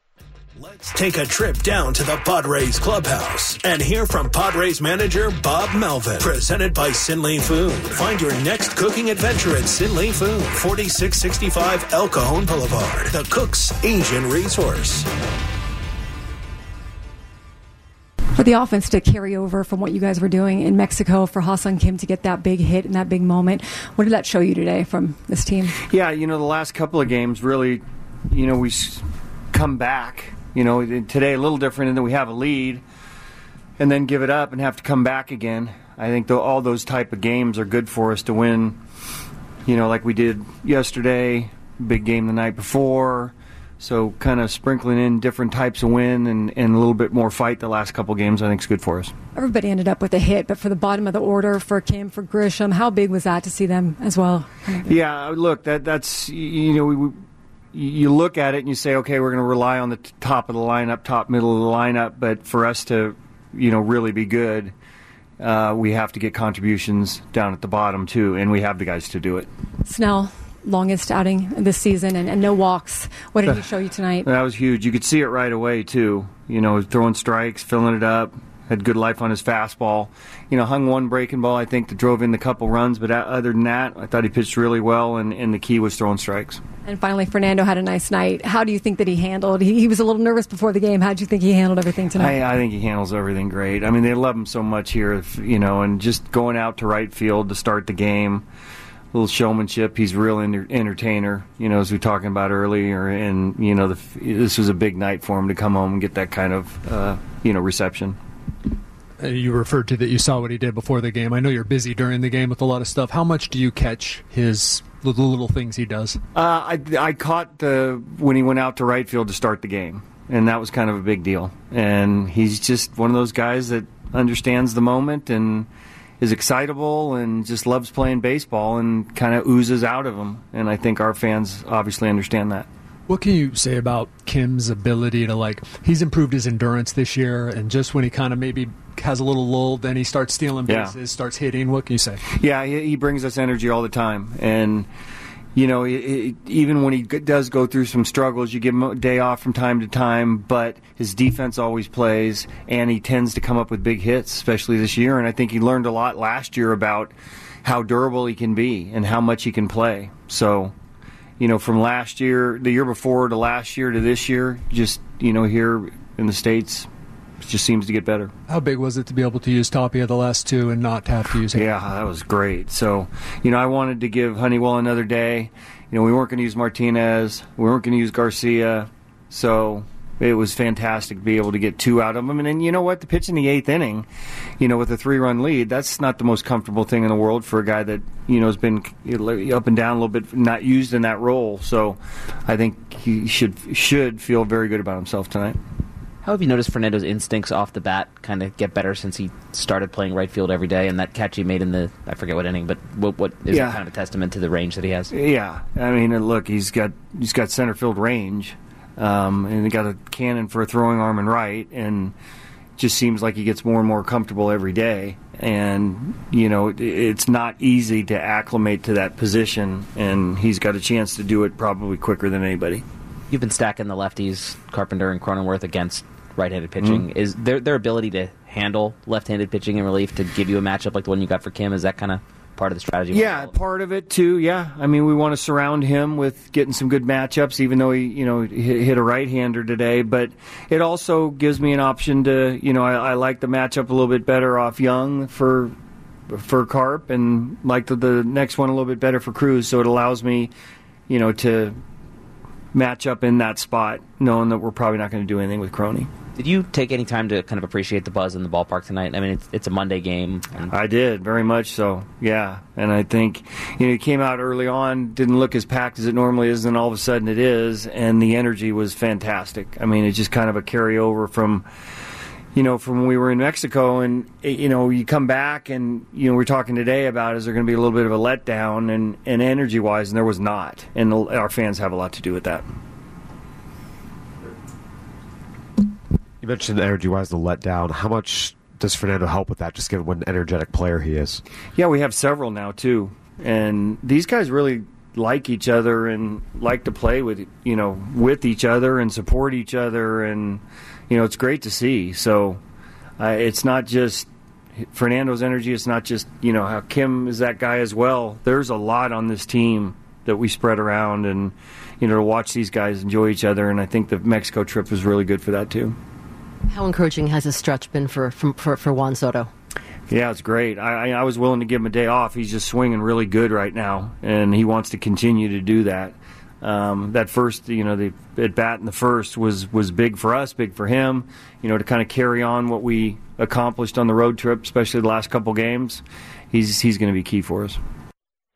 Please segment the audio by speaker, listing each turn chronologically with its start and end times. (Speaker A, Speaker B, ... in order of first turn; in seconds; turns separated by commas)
Speaker A: 0.6-15.1, Speaker B: 18.4-25.8, Speaker C: 25.8-32.8, Speaker C: 33.8-38.8, Speaker C: 39.7-49.1, Speaker B: 49.4-54.9, Speaker C: 54.8-57.2, Speaker C: 57.7-64.7, Speaker C: 65.4-69.5, Speaker B: 69.9-74.3, Speaker C: 74.2-86.6, Speaker B: 86.8-92.4, Speaker C: 92.1-98.5, Speaker C: 99.1-108.2, Speaker D: 109.2-116.2, Speaker C: 116.3-125.7, Speaker C: 126.2-132.7, Speaker D: 133.1-142.2, Speaker C: 140.7-140.9, Speaker C: 142.3-144.9, Speaker C: 145.6-160.7, Speaker C: 161.4-166.9, Speaker C: 167.4-168.3, Speaker D: 168.5-171.7, Speaker C: 171.5-184.1, Speaker C: 184.6-195.6, Speaker E: 196.2-205.1, Speaker C: 203.5-203.8, Speaker C: 205.1-212.1, Speaker C: 212.8-222.8, Speaker E: 223.3-233.5, Speaker C: 226.8-227.1, Speaker C: 233.1-245.8, Speaker C: 246.3-250.5, Speaker C: 251.1-251.8, Speaker C: 252.7-256.1, Speaker E: 256.4-260.7, Speaker C: 260.7-271.7, Speaker C: 272.6-282.6, Speaker F: 286.4-291.4, Speaker C: 291.8-302.6, Speaker C: 303.2-304.3, Speaker C: 304.9-316.0, Speaker G: 316.7-319.5, Speaker C: 320.1-337.8